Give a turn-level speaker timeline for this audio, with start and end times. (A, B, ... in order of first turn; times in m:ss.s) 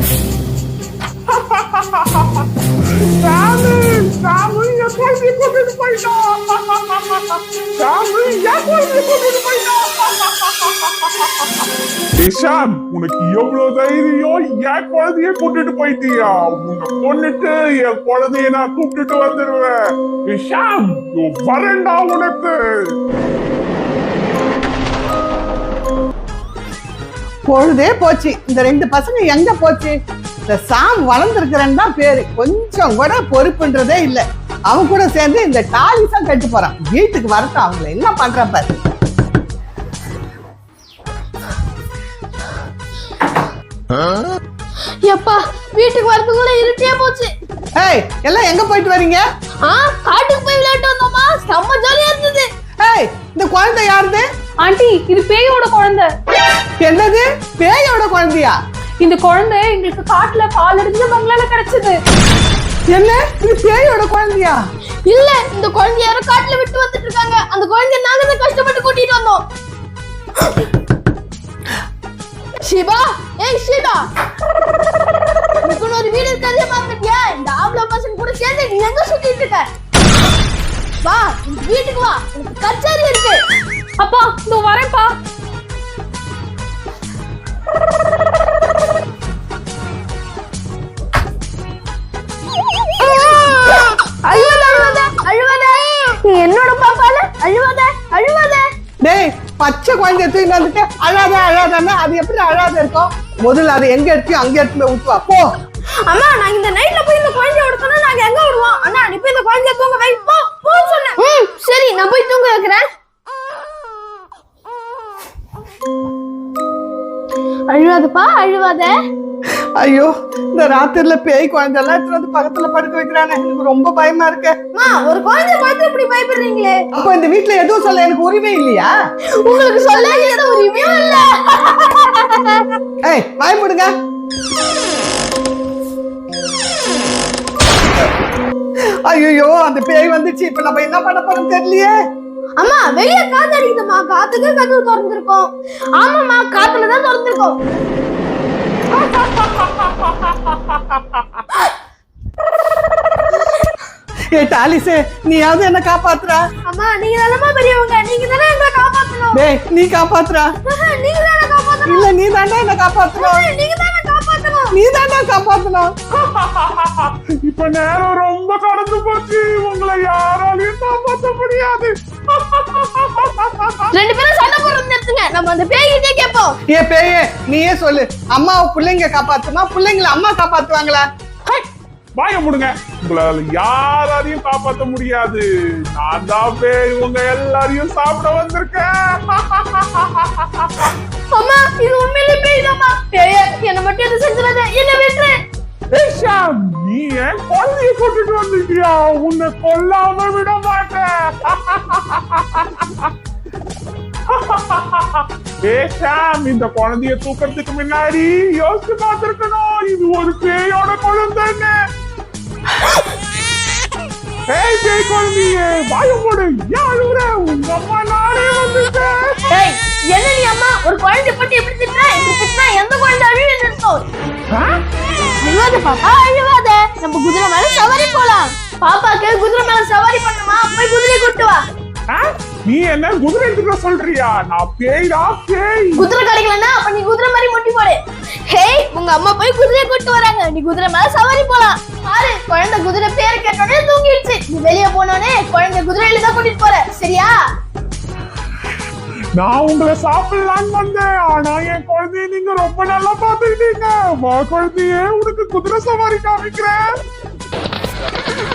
0:01.3-0:02.5 A
0:03.2-0:19.7 A
0:20.3-0:22.6 A
0:27.5-0:30.0 B
0:30.5-0:38.7 B
0:45.0-0:47.3 C
0:47.8-0:49.2 B
0:49.6-0:52.5 C
0:52.8-0:54.2 B
0:54.6-0:56.1 D
0:56.8-0:58.6 B
0:59.0-1:02.0 D
1:02.9-1:04.6 B
1:05.1-1:09.4 C
1:12.6-1:14.1 C
1:15.6-1:19.7 C
1:21.0-1:23.4 C
1:24.0-1:25.1 D
1:33.6-1:38.6 C
1:39.0-1:45.5 B
1:46.1-1:52.9 C
1:57.7-1:58.9 C
1:59.8-2:04.6 B
2:04.7-2:06.8 C
2:07.0-2:08.9 B
2:09.4-2:12.6 C
2:13.1-2:13.9 B
2:19.1-2:22.0 B
2:22.6-2:27.6 C
2:28.9-2:31.4 A
2:34.3-2:36.4 B
2:36.7-2:39.4 C
2:39.3-2:40.5 B
2:40.7-2:42.1 C
2:41.8-2:43.5 B
2:43.2-2:44.8 C
2:44.7-2:45.9 B
2:46.1-2:54.0 A
2:53.9-2:56.6 C
2:56.7-3:01.1 B
3:02.2-3:10.9 A
3:11.3-3:15.4 C
3:15.9-3:23.1 A
3:24.3-3:31.8 A
3:34.5-3:39.4 A
3:39.5-3:44.0 C
3:44.5-3:44.8 A
3:45.4-3:51.6 C
3:52.1-3:56.1 A
3:56.0-4:07.3 C
4:09.4-4:16.9 A